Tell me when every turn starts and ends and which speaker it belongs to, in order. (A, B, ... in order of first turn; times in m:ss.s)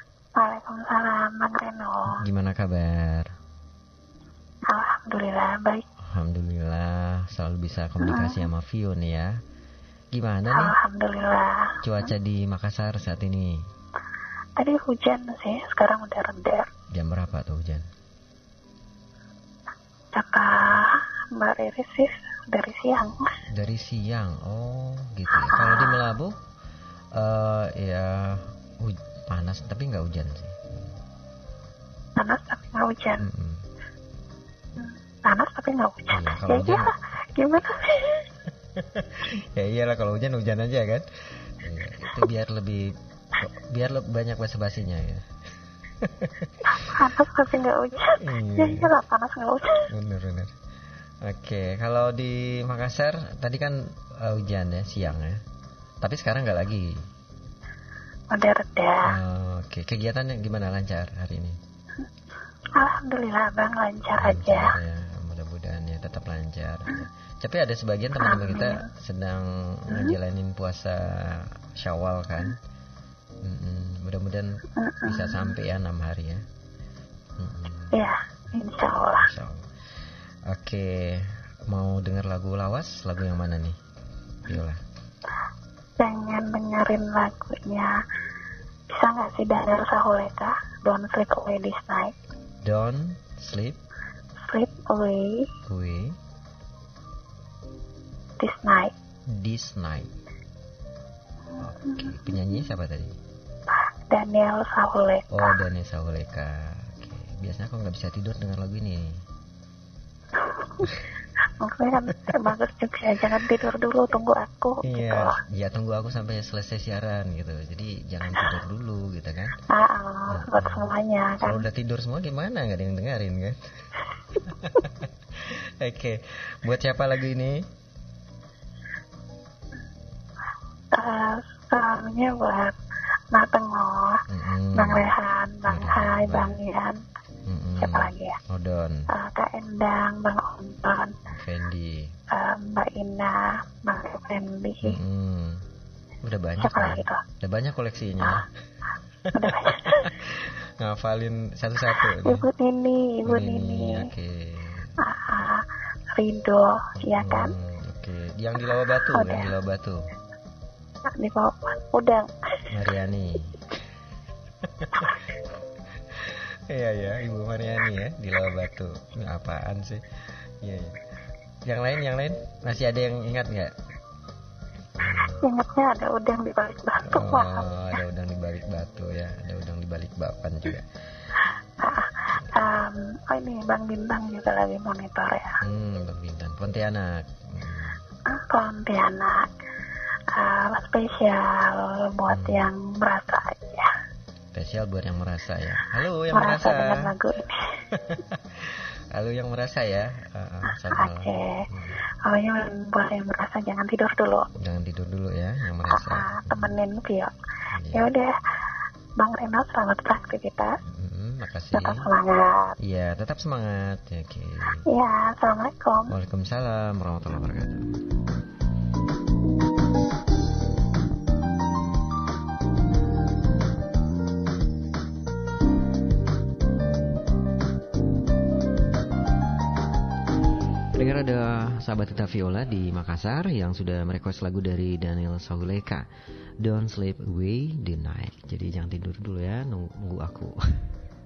0:00.4-0:02.2 A
0:02.1-0:03.3 B
0:04.7-0:05.8 A
0:06.1-0:09.3 B
0:08.0-0:08.5 A
0:10.1-0:10.7 B
0:10.5-0:11.7 A
0:11.8-0:13.6 B
0:14.6-0:16.7 A
0:16.9-0:17.8 B
0:20.2-0:23.2 A
0:23.5-0:26.3 B
0:25.3-0:26.0 A
0:27.2-0:30.9 B
0:32.2-0:33.2 A
0:33.2-0:33.6 B
0:34.8-0:38.3 A
0:36.1-0:36.9 B
0:38.8-0:45.2 B
0:46.0-0:47.2 B
0:46.7-0:49.9 A
0:48.2-0:48.9 B
0:49.9-0:50.5 B
0:51.2-0:55.4 B
0:56.0-0:56.9 B
0:58.3-0:59.0 A
0:59.0-1:01.6 B
1:02.8-1:04.7 A
1:04.2-1:12.6 B
1:08.2-1:08.8 A
1:09.9-1:10.2 A
1:13.4-1:14.5 B
1:14.8-1:15.4 A
1:15.0-1:16.4 B
1:17.4-1:18.1 B
1:17.9-1:19.3 A
1:19.2-1:19.6 B
1:20.5-1:23.8 B
1:24.4-1:24.8 B
1:26.0-1:27.9 A
1:28.9-1:32.2 A
1:32.7-1:33.8 B
1:34.4-1:35.5 A
1:35.7-1:36.1 B
1:38.4-1:38.9 A
1:39.3-1:40.1 B
1:41.6-1:43.1 B
1:41.8-1:42.2 A
1:44.1-1:45.6 A
1:45.3-1:49.1 B
1:50.4-1:50.8 A
1:51.6-1:55.4 A
1:54.8-1:59.6 B
1:59.7-2:01.6 A
2:00.3-2:00.9 B
2:01.4-2:03.6 B
2:04.3-2:07.6 B
2:10.9-2:12.8 A
2:13.3-2:14.2 A
2:14.3-2:15.1 B
2:14.7-2:17.0 A
2:15.7-2:16.6 B
2:17.5-2:19.0 B
2:17.8-2:18.4 A
2:19.1-2:21.2 A
2:21.3-2:22.0 B
2:22.3-2:25.0 A
2:24.8-2:25.6 B
2:26.2-2:28.5 B
2:26.6-2:27.2 A
2:29.3-2:30.1 A
2:29.4-2:32.5 B
2:32.1-2:34.1 A
2:33.3-2:34.9 B
2:35.0-2:37.5 A
2:37.0-2:40.0 B
2:39.1-2:39.5 A
2:41.1-2:42.3 A
2:42.7-2:43.6 B
2:44.7-2:45.2 B
2:46.2-2:50.0 B
2:50.6-2:51.0 B
2:51.7-2:53.7 B
2:55.0-2:55.4 B
2:55.4-2:57.7 A
2:57.0-3:00.8 B
3:01.8-3:05.6 A
3:05.6-3:08.0 B
3:08.3-3:09.5 A
3:10.3-3:13.9 A
3:12.3-3:12.7 B
3:14.6-3:17.1 B
3:16.3-3:17.7 A
3:17.9-3:22.0 B
3:20.9-3:21.6 A
3:22.2-3:24.5 A
3:24.6-3:26.8 B
3:25.9-3:27.3 A
3:27.7-3:28.1 B
3:27.9-3:28.3 A
3:29.2-3:30.8 A
3:30.9-3:32.1 B
3:31.7-3:32.8 A
3:32.8-3:34.8 B
3:34.9-3:36.1 A
3:36.1-3:38.0 B
3:51.0-3:56.0 B
3:56.6-4:00.8 B